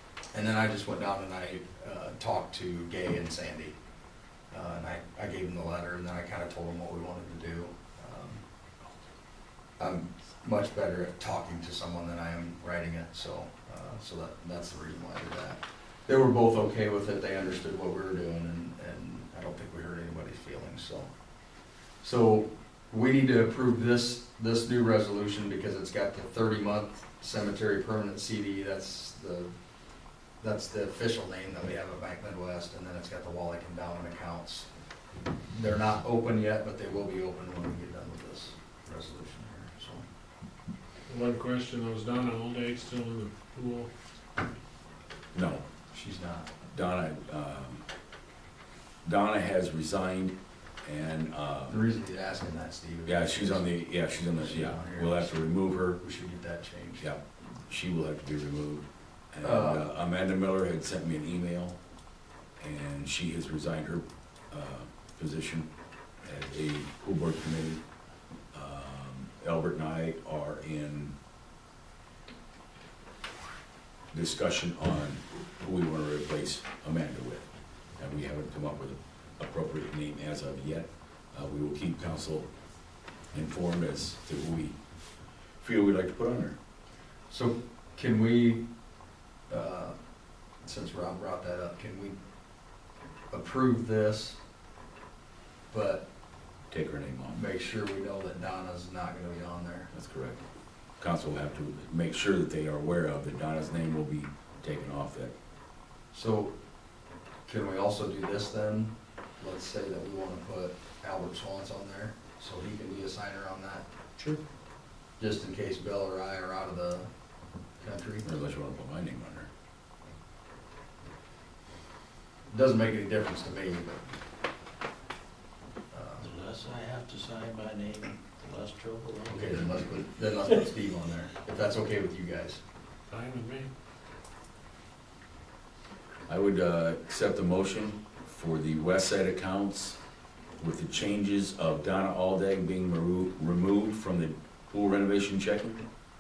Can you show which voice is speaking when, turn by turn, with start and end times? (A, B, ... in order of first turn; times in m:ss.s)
0:00.3-0:03.7 A
0:04.5-0:08.4 A
0:09.8-0:21.1 A
0:22.0-0:29.5 A
0:30.4-0:34.7 A
0:35.5-0:40.0 A
0:41.1-0:43.9 B
0:45.3-0:45.6 C
0:45.9-0:46.5 A
0:46.7-0:47.8 C
0:49.0-0:51.8 C
0:51.7-0:55.4 A
0:53.0-0:56.0 C
0:56.0-0:57.1 A
0:57.0-1:01.8 C
0:59.4-0:59.9 A
1:02.6-1:05.7 C
1:06.2-1:07.8 C
1:08.5-1:11.1 C
1:14.1-1:17.4 C
1:18.0-1:22.5 C
1:23.3-1:24.8 C
1:25.6-1:26.6 C
1:27.3-1:28.6 A
1:29.5-1:29.9 A
1:30.6-1:32.2 A
1:33.3-1:34.4 A
1:35.7-1:36.0 A
1:36.7-1:37.4 C
1:37.3-1:39.9 A
1:39.9-1:40.4 C
1:41.0-1:45.3 C
1:46.1-1:46.5 A
1:47.5-1:53.8 A
1:55.2-1:57.1 A
1:57.8-1:58.2 A
1:58.2-1:59.5 C
2:02.5-2:04.0 A
2:05.9-2:06.3 A
2:06.2-2:10.0 D
2:09.3-2:12.6 A
2:13.1-2:13.7 B
2:16.3-2:20.0 C
2:20.6-2:25.8 C